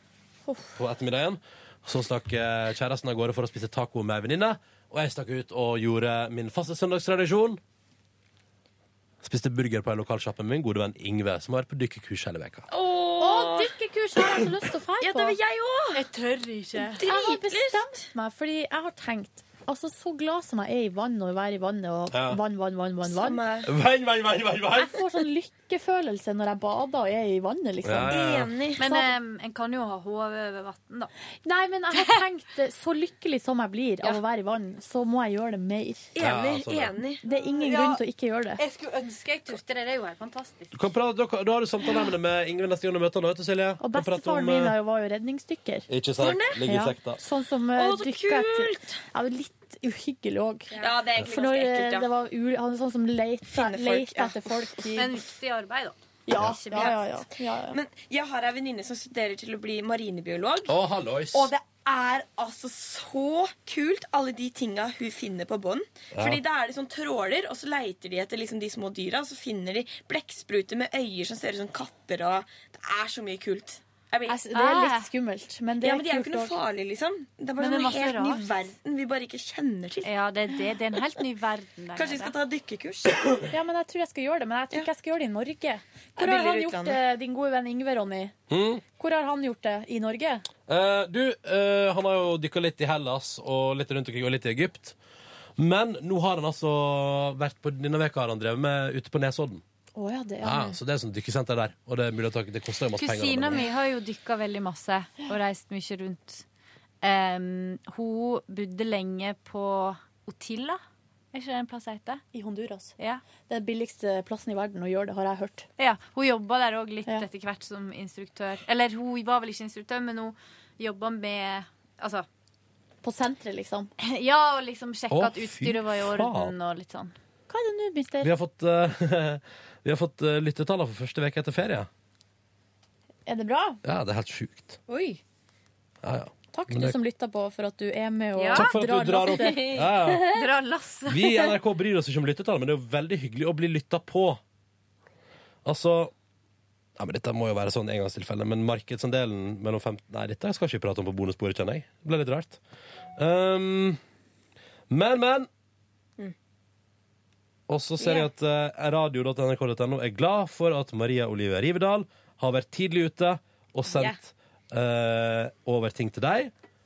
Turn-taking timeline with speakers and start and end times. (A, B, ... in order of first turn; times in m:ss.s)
0:00.5-0:00.8 A
0:00.8-0:07.6 B
0:09.2-0:12.7 B
0:12.7-0:13.7 C
0:13.2-0:15.4 A
0:15.0-0:16.0 C
0:15.9-0:17.0 D
0:16.8-0:23.4 A
0:17.0-0:17.9 C
0:22.1-0:22.4 B
0:23.0-0:23.7 C
0:23.6-0:25.0 B
0:24.8-0:29.1 A
0:27.8-0:28.5 B
0:28.0-0:28.8 C
0:28.8-0:31.1 D
0:31.4-0:36.1 A
0:36.1-0:37.2 C
0:36.2-0:36.9 B
0:37.2-0:38.6 A
0:37.2-0:38.0 D
0:38.6-0:40.7 D
0:40.7-0:44.8 B
0:43.8-0:45.9 A
0:45.9-0:47.2 B
0:46.2-0:46.6 C
0:46.6-0:55.2 A
0:47.7-0:49.0 C
0:50.7-0:52.1 C
0:53.5-0:54.7 C
0:54.9-0:57.2 D
0:56.3-0:57.8 A
0:57.7-1:00.7 C
1:00.7-1:01.5 B
1:01.3-1:14.4 C
1:06.1-1:06.4 B
1:14.3-1:16.6 A
1:14.5-1:15.1 D
1:15.8-1:20.0 C
1:17.6-1:18.5 D
1:20.0-1:22.4 D
1:22.0-1:23.3 C
1:23.5-1:28.3 A
1:26.2-1:27.0 C
1:28.5-1:28.8 B
1:29.0-1:30.4 A
1:30.7-1:35.0 B
1:35.6-1:39.6 B
1:40.0-1:40.8 A
1:40.4-1:43.6 B
1:43.0-1:46.4 D
1:47.0-1:50.8 D
1:51.3-1:52.2 D
1:52.3-1:52.9 A
1:53.5-1:55.7 A
1:55.8-2:02.2 D
2:03.0-2:03.9 A
2:04.0-2:07.1 D
2:05.1-2:06.5 B
2:07.5-2:08.3 A
2:08.2-2:11.9 B
2:13.2-2:13.8 A
2:13.8-2:14.8 B
2:14.9-2:15.2 C
2:16.0-2:17.0 B
2:16.5-2:19.7 A
2:18.3-2:21.6 D
2:18.5-2:20.3 B
2:21.1-2:24.4 B
2:25.6-2:26.1 B
2:27.0-2:32.6 B
2:33.2-2:34.0 B
2:34.9-2:35.5 B
2:37.7-2:46.5 B
2:38.0-2:38.3 C
2:43.9-2:44.2 C